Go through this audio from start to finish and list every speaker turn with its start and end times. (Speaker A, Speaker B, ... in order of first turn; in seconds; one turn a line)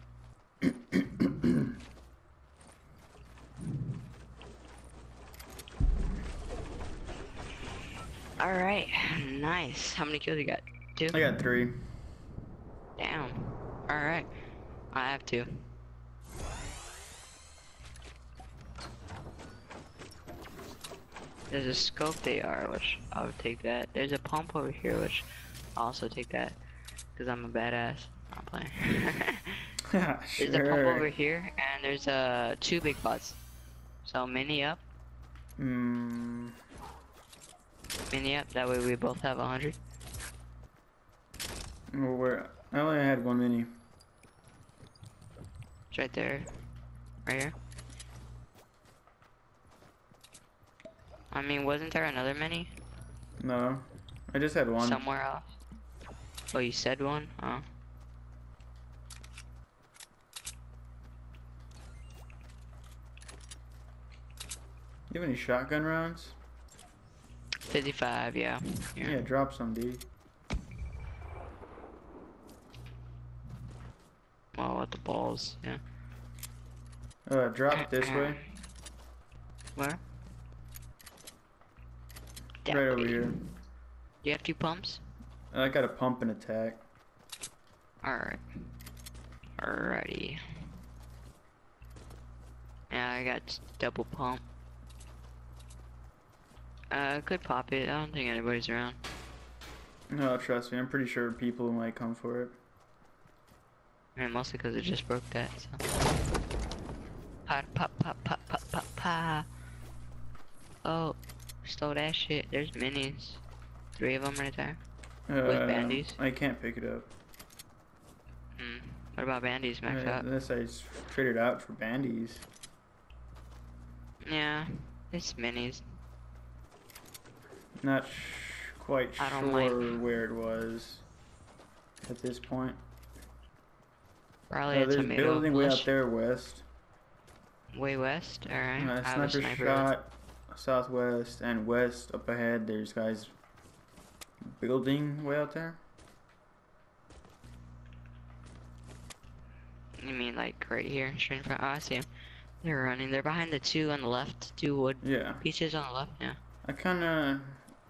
Speaker A: 0.9-1.5
Speaker B: 8.4-11.2
Speaker A: 11.1-11.8
Speaker B: 13.0-14.3
Speaker B: 14.9-15.5
Speaker B: 21.5-25.2
Speaker B: 25.8-26.6
Speaker B: 27.1-29.6
Speaker A: 29.9-31.1
Speaker B: 30.4-33.4
Speaker B: 34.0-34.8
Speaker A: 35.6-36.6
Speaker B: 38.1-39.8
Speaker A: 41.9-43.7
Speaker B: 45.9-46.5
Speaker B: 47.3-47.5
Speaker B: 51.3-52.7
Speaker A: 53.4-55.0
Speaker B: 54.8-55.5
Speaker B: 56.5-57.6
Speaker A: 65.1-66.4
Speaker B: 67.7-69.2
Speaker A: 69.0-70.0
Speaker B: 74.5-75.8
Speaker A: 77.3-78.4
Speaker B: 77.7-78.4
Speaker B: 79.8-80.0
Speaker B: 82.7-83.3
Speaker A: 82.7-83.4
Speaker B: 84.2-85.0
Speaker A: 85.5-86.8
Speaker B: 88.0-88.4
Speaker B: 89.6-90.4
Speaker B: 92.9-94.4
Speaker B: 96.9-99.0
Speaker A: 100.1-102.6
Speaker B: 104.2-105.8
Speaker B: 107.5-109.5
Speaker B: 110.8-113.4
Speaker B: 114.0-114.8
Speaker A: 115.3-117.1
Speaker B: 115.5-116.2
Speaker B: 118.6-120.2
Speaker A: 119.9-122.5
Speaker B: 124.3-125.8
Speaker A: 127.8-131.1
Speaker B: 129.2-130.0
Speaker A: 132.1-132.8
Speaker B: 134.5-135.9
Speaker A: 134.7-136.6
Speaker B: 137.7-139.9
Speaker A: 138.8-143.3
Speaker A: 144.6-145.8
Speaker B: 150.0-152.1
Speaker B: 152.6-156.4
Speaker A: 155.0-155.4
Speaker A: 156.7-157.6